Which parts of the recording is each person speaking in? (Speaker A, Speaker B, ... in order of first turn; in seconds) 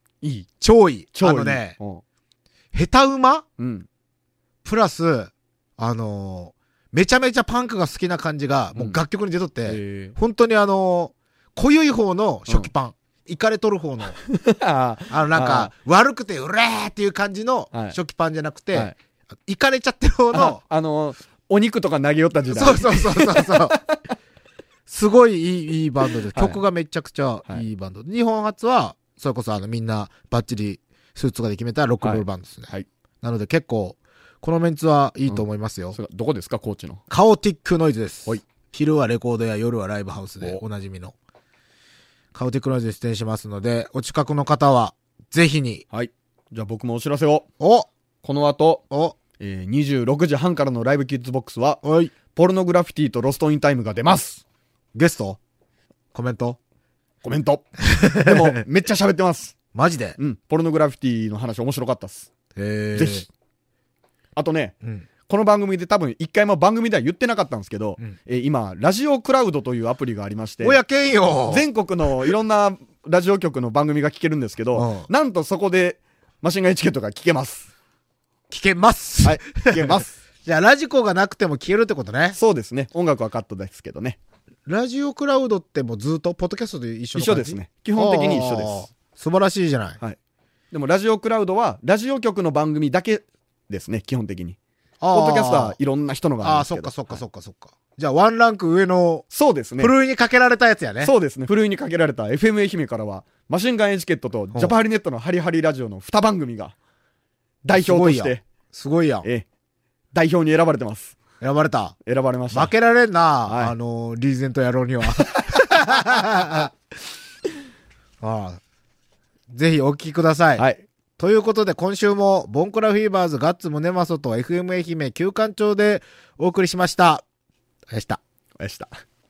Speaker A: 0.2-0.5, 1.1-2.0, 3.6-3.9, 9.7-10.2, 14.2-15.7, 17.7-18.0, 20.3-24.1, 26.1-26.6, 32.0-32.9, 35.3-37.0, 45.9-47.5, 48.2-48.8, 49.4-54.4, 57.2-59.5, 60.2-62.3, 62.9-63.3, 64.3-64.8, 65.3-70.8, 71.5-77.7, 79.2-80.2, 82.3-84.2, 87.1-88.9, 90.7-94.6, 95.1-97.2, 99.3-99.9, 101.0-106.8, 107.6-108.4, 110.1-111.2, 112.0-112.7, 113.5-113.7, 120.6-120.8, 128.6-128.9
Speaker B: 0.6-1.8, 2.7-3.4, 4.6-14.2, 15.1-18.9, 19.4-20.6, 22.5-23.8, 24.9-36.0, 37.1-41.1, 42.3-45.8, 47.6-47.9, 48.9-49.1, 51.8-52.1, 54.9-55.4, 56.1-56.6, 57.9-58.6, 59.7-60.2, 62.5-63.2, 70.6-71.7, 74.7-75.1, 78.5-82.4, 84.7-90.0, 95.0-95.8, 96.4-99.2, 99.8-101.1, 107.7-109.2, 111.4-112.0, 112.5-116.7, 118.2-118.6, 119.5-120.7, 121.2-127.2, 127.9-128.2